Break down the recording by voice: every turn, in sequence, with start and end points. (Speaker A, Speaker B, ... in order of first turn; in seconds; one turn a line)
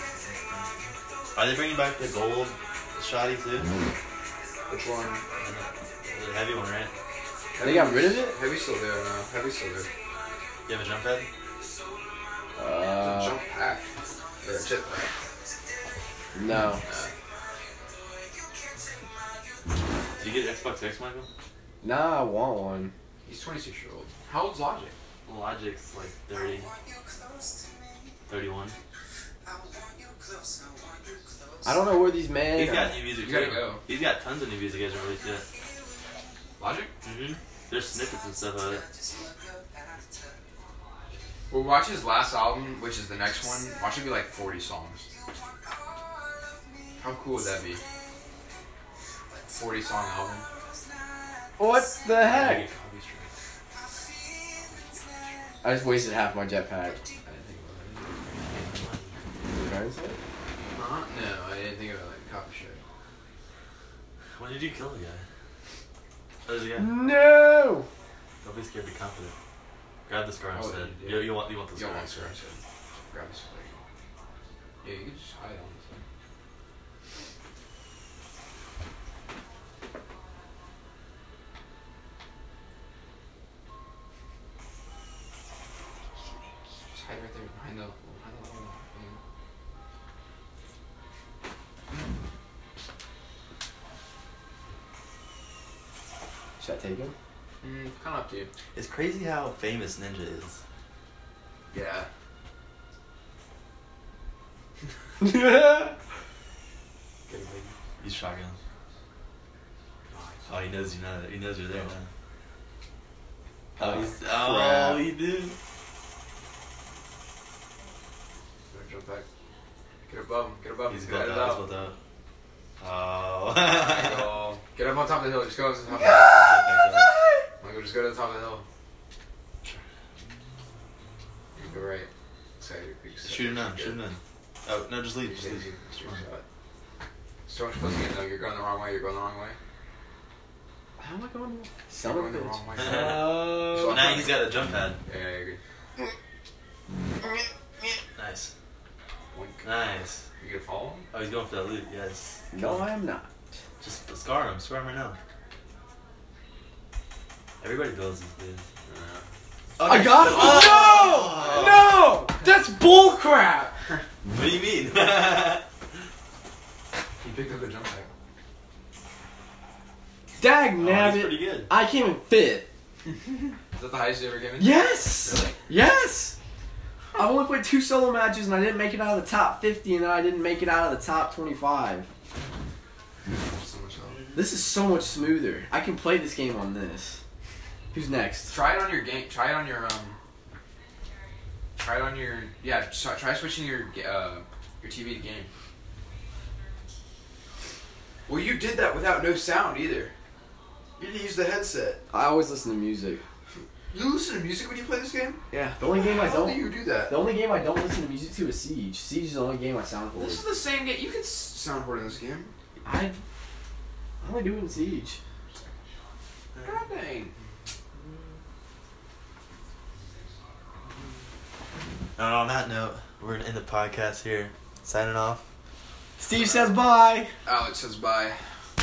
Speaker A: 1.4-3.7
Speaker B: 4.7-5.3
Speaker A: 5.4-6.9
Speaker B: 7.5-9.9
Speaker C: 7.6-8.4
Speaker A: 10.7-11.3
Speaker C: 12.6-13.4
Speaker B: 13.0-13.9
Speaker B: 14.4-15.1
Speaker C: 16.4-16.8
Speaker B: 16.8-17.1
Speaker A: 20.2-21.3
Speaker C: 21.8-22.9
Speaker B: 23.2-24.9
Speaker A: 25.3-26.7
Speaker A: 28.3-28.8
Speaker C: 31.6-33.0
Speaker A: 32.5-35.5
Speaker B: 33.2-33.8
Speaker B: 36.6-36.9
Speaker A: 37.0-38.9
Speaker B: 41.5-45.1
Speaker B: 47.0-47.8
Speaker B: 49.5-50.5
Speaker C: 51.6-52.7
Speaker A: 52.2-53.3
Speaker C: 55.6-57.0
Speaker B: 57.2-58.5
Speaker A: 58.4-59.2
Speaker C: 59.5-60.2
Speaker B: 60.7-62.8
Speaker A: 64.4-65.2
Speaker A: 66.4-67.0
Speaker C: 66.8-67.9
Speaker A: 68.4-69.3
Speaker A: 70.1-72.3
Speaker B: 70.5-73.8
Speaker B: 74.8-76.0
Speaker B: 86.9-89.2
Speaker C: 96.6-97.1
Speaker B: 97.6-98.5
Speaker A: 98.7-100.6
Speaker B: 101.7-102.1
Speaker C: 105.2-106.0
Speaker B: 107.3-107.8
Speaker A: 108.0-108.6
Speaker B: 110.1-110.7
Speaker A: 110.5-112.1
Speaker C: 113.8-115.1
Speaker A: 113.8-115.6
Speaker B: 118.7-119.3
Speaker B: 120.1-121.6
Speaker A: 120.9-122.0
Speaker A: 122.8-124.4
Speaker B: 123.6-126.6
Speaker C: 125.9-127.5
Speaker A: 126.2-127.1
Speaker B: 127.6-128.6
Speaker B: 131.6-134.0
Speaker A: 133.2-136.1
Speaker B: 135.2-136.4
Speaker B: 137.5-139.6
Speaker C: 141.0-144.1
Speaker B: 142.0-144.5
Speaker A: 142.8-145.0
Speaker B: 145.1-145.6
Speaker A: 148.2-148.5
Speaker B: 149.3-149.7
Speaker A: 149.6-150.2
Speaker B: 150.4-151.1
Speaker A: 151.1-152.9
Speaker C: 152.5-153.3
Speaker A: 153.8-155.2
Speaker A: 157.6-158.6
Speaker B: 158.9-159.2
Speaker A: 159.8-162.0
Speaker C: 159.8-163.8
Speaker B: 160.2-161.7
Speaker B: 163.8-164.0
Speaker A: 164.2-165.6
Speaker B: 167.2-168.1
Speaker C: 170.4-172.7
Speaker A: 170.8-171.7
Speaker B: 173.1-175.6
Speaker C: 174.6-176.4
Speaker C: 177.1-182.1
Speaker B: 183.2-184.2
Speaker A: 184.1-184.5
Speaker C: 184.3-187.2
Speaker C: 187.9-188.6
Speaker B: 188.5-190.2
Speaker B: 191.8-195.5
Speaker B: 198.3-200.1
Speaker B: 201.0-202.0
Speaker C: 202.1-203.2
Speaker B: 203.9-207.2
Speaker C: 205.5-210.4
Speaker B: 210.2-212.5
Speaker C: 212.8-213.2
Speaker C: 214.2-215.2
Speaker B: 216.6-217.3
Speaker A: 222.2-225.4
Speaker C: 226.2-227.3
Speaker B: 226.4-226.8
Speaker B: 227.4-228.4